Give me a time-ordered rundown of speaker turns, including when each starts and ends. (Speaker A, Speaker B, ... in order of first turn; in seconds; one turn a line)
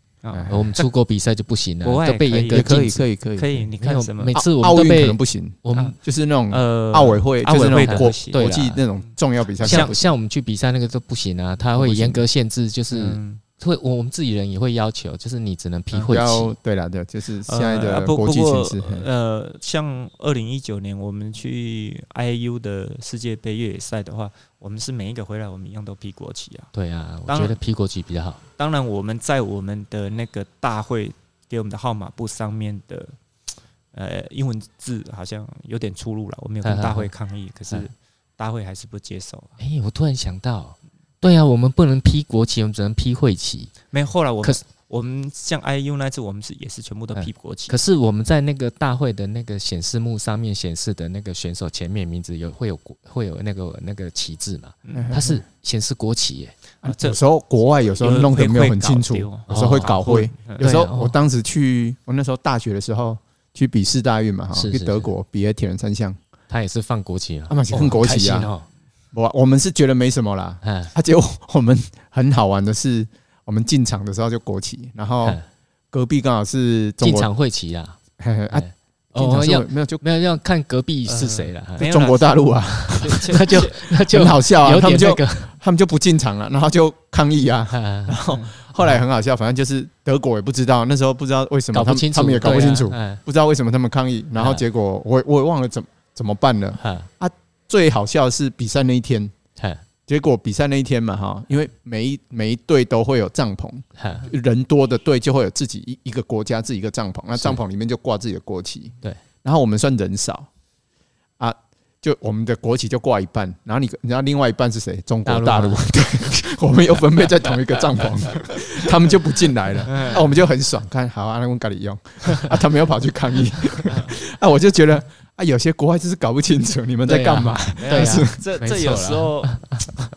Speaker A: 0.2-0.9
Speaker B: 0.3-0.7
Speaker C: 0.5-3.0
Speaker A: 1.8-4.4
Speaker B: 2.5-3.6
Speaker C: 3.8-6.0
Speaker B: 4.3-10.0
Speaker A: 6.5-8.5
Speaker C: 7.6-8.8
Speaker C: 9.6-16.5
Speaker A: 9.6-9.9
Speaker B: 11.8-12.2
Speaker A: 12.9-13.4
Speaker B: 16.0-19.1
Speaker A: 17.5-26.7
Speaker C: 26.7-28.4
Speaker A: 27.3-27.6
Speaker A: 28.6-33.2
Speaker A: 33.9-39.6
Speaker C: 36.6-37.1
Speaker C: 39.6-43.7
Speaker A: 43.9-47.8
Speaker C: 47.1-56.5
Speaker A: 54.9-55.1
Speaker B: 54.9-55.4
Speaker A: 56.8-57.2
Speaker B: 56.8-66.2
Speaker A: 57.8-60.7
Speaker C: 59.5-60.0
Speaker C: 60.6-61.2
Speaker C: 64.5-65.1
Speaker C: 66.5-68.7
Speaker B: 67.5-68.5
Speaker B: 69.1-75.4
Speaker C: 70.6-70.9
Speaker B: 75.9-77.3
Speaker C: 77.0-78.0
Speaker B: 78.2-80.0
Speaker C: 78.5-81.9
Speaker A: 81.1-83.8
Speaker B: 81.8-99.3
Speaker C: 82.7-85.5
Speaker C: 87.7-88.2
Speaker C: 91.7-93.2
Speaker C: 94.4-94.6
Speaker C: 96.8-97.1
Speaker C: 99.6-99.8
Speaker B: 100.1-110.5
Speaker C: 104.0-104.3
Speaker B: 111.4-128.4
Speaker C: 115.2-115.9
Speaker A: 119.9-120.3
Speaker A: 123.9-124.2
Speaker C: 127.0-129.9
Speaker A: 127.8-129.7